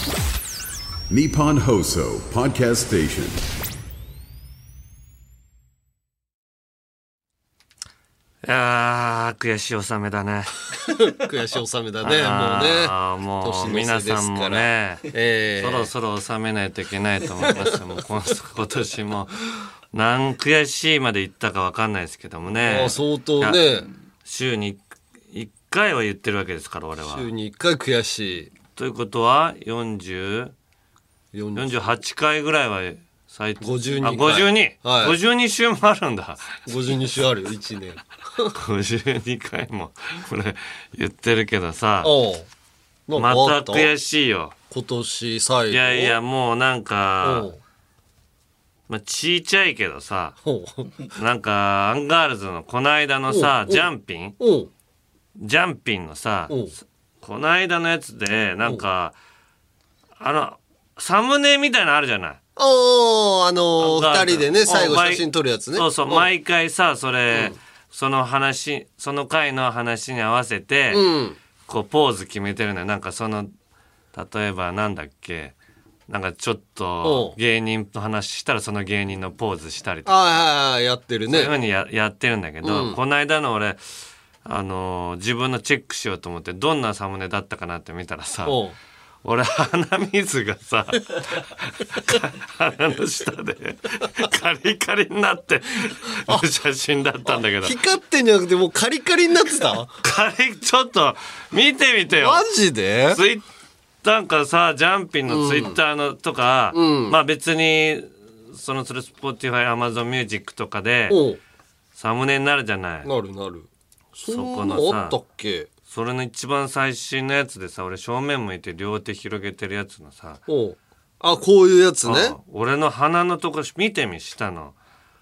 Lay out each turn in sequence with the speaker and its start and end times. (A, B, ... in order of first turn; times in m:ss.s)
0:01.1-0:03.4 A
0:08.4-0:10.5 B
0:10.9-0:15.9 C
0:12.0-0:15.0 B
0:15.6-0:19.3 B
0:17.4-0:17.7 C
0:19.9-0:23.6 B
0:22.6-0:23.9 C
0:24.2-0:27.3 B
0:27.1-0:28.5 C
0:28.7-0:30.5 B
0:31.3-0:31.8 C
0:31.5-0:36.6 B
0:33.6-0:35.2 C
0:36.6-0:38.5 C
0:38.5-0:42.1 B
0:42.0-0:42.5 C
0:43.1-0:43.9 C
0:43.1-0:44.5 B
0:44.7-0:46.2 C
0:45.7-0:47.5 B
0:47.2-0:47.6 C
0:48.9-0:50.4 B
0:50.4-0:50.9 C
0:51.1-0:54.4 B
0:53.3-0:54.7 C
0:55.4-0:56.6 B
0:57.2-0:59.2 B
1:00.2-1:02.4 B
1:02.6-1:06.3 C
1:03.8-1:11.0 B
1:10.9-1:11.4 C
1:11.7-1:13.5 B
1:14.1-1:15.5 B
1:16.1-1:20.1 B
1:17.0-1:17.4 C
1:20.0-1:21.5 C
1:21.3-1:23.8 B
1:22.6-1:23.0 C
1:24.4-1:28.6 B
1:28.4-1:28.7 C
1:29.2-1:37.7 B
1:37.3-1:39.9 C
1:40.0-1:42.4 B
1:42.1-1:43.2 C
1:43.1-1:43.4 B
1:44.0-1:51.2 B
1:45.3-1:45.8 C
1:46.7-1:47.2 C
1:51.1-1:51.4 C
1:51.9-1:53.1 B
1:53.0-1:55.7 C
1:54.2-1:55.2 B
1:55.9-2:00.4 B
2:00.5-2:02.4 C
2:02.0-2:04.8 B